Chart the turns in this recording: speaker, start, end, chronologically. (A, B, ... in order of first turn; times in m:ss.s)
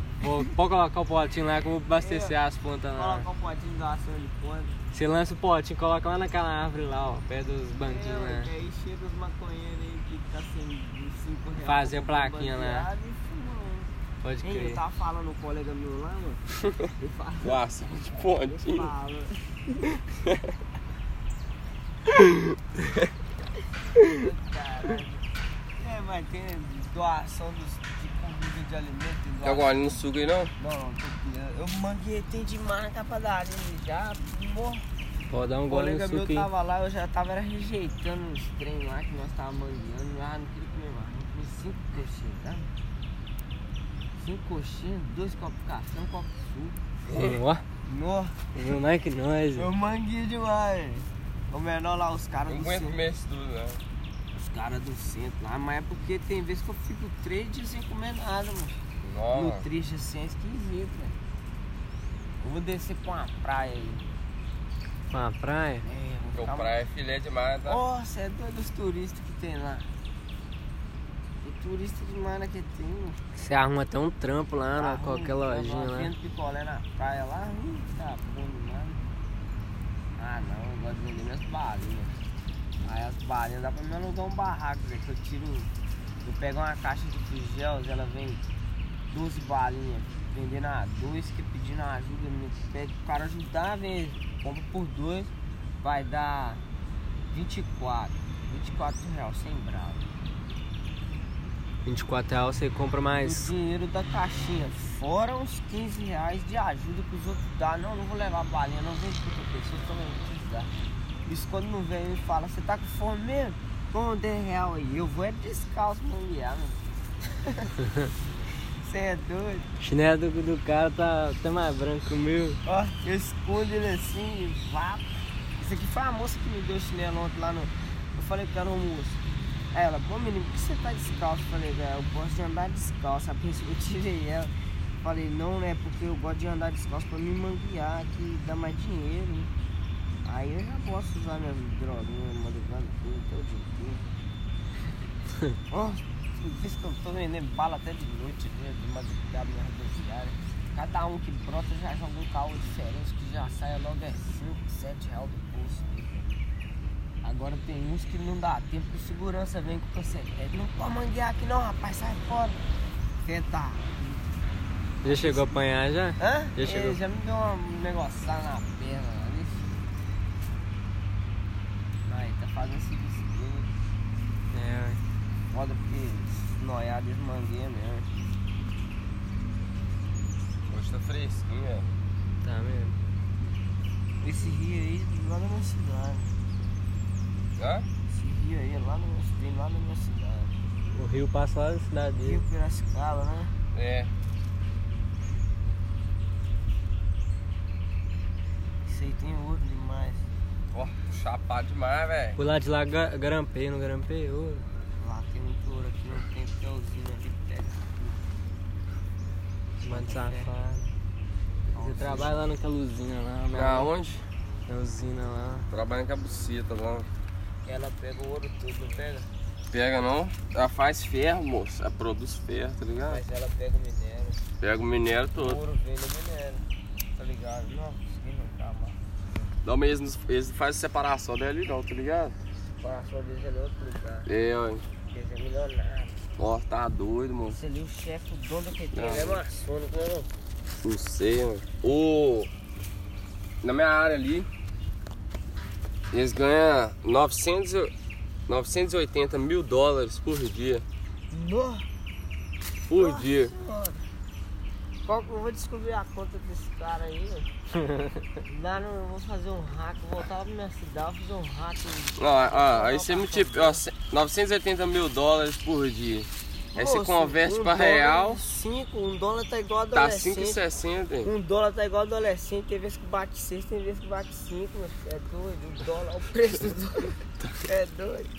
0:00.2-0:03.2 A
0:02.0-0:02.4 B
0:02.9-0:04.8 B
0:04.9-0:08.5 A
0:07.8-0:19.6 B
0:11.6-0:12.9 A
0:14.2-0:14.8 A
0:17.4-0:18.9 C
0:24.0-0:25.2 B
0:25.8-0:30.0 B
0:29.4-0:30.5 C
0:30.6-0:34.8 B
0:35.3-0:36.5 A
0:35.7-0:42.7 B
0:44.1-0:47.0 B
0:47.1-0:47.6 A
0:47.8-0:48.4 B
0:48.5-0:49.7 A
0:49.6-0:53.0 B
0:52.5-0:53.8 C
0:54.3-0:58.8 B
0:59.0-0:59.6 C
0:59.3-1:01.2 B
1:02.4-1:04.1 B
1:05.1-1:05.8 A
1:05.8-1:06.7 B
1:06.3-1:07.8 C
1:07.6-1:09.9 B
1:11.4-1:13.2 B
1:13.3-1:16.1 A
1:14.8-1:19.0 B
1:20.2-1:22.2 B
1:22.8-1:28.4 B
1:29.1-1:36.6 B
1:37.3-1:40.1 B
1:41.8-1:43.5 A
1:43.2-1:50.7 B
1:51.2-1:57.7 B
1:58.8-1:59.7 B
1:59.8-2:02.6 A
2:02.6-2:09.2 B
2:09.7-2:19.5 B
2:20.2-2:24.0 B
2:25.7-2:36.4 B
2:37.2-2:42.6 B
2:43.2-2:44.2 B
2:45.0-2:45.6 B
2:45.0-2:47.0 A
2:46.2-2:49.8 B
2:52.0-2:53.7 B
2:54.5-2:55.0 A
2:55.5-2:58.2 B
3:00.7-3:01.9 C
3:02.4-3:03.0 A
3:04.2-3:06.3 B
3:07.6-3:07.8 C
3:08.0-3:10.5 B
3:10.9-3:12.4 A
3:12.2-3:13.5 B
3:13.7-3:14.1 C
3:18.8-3:20.3 B
3:20.7-3:22.4 C
3:22.4-3:24.6 A
3:25.0-3:28.2 B
3:29.8-3:30.5 B
3:29.8-3:30.9 A
3:31.7-3:32.4 B
3:31.8-3:33.9 A
3:33.5-3:34.2 C
3:34.7-3:35.7 A
3:35.7-3:37.1 C
3:37.6-3:39.3 B
3:39.7-3:43.2 C
3:43.1-3:44.4 B
3:44.6-3:45.6 C
3:45.4-3:46.6 B
3:47.1-3:49.5 B
3:49.6-3:52.3 C
3:52.8-3:54.3 B
3:54.2-3:54.8 C
3:55.1-3:56.2 B
3:56.4-3:57.6 C
3:57.5-4:00.3 B
3:58.9-3:59.4 C
4:00.8-4:02.5 C
4:03.6-4:04.5 C
4:06.1-4:07.9 C
4:08.5-4:10.8 C
4:11.3-4:11.9 B
4:12.9-4:13.5 C
4:12.9-4:14.0 B
4:15.0-4:17.5 B
4:17.8-4:18.2 A
4:18.4-4:23.8 B
4:22.2-4:28.4 C
4:26.7-4:30.6 B
4:29.9-4:31.3 C
4:31.2-4:38.3 B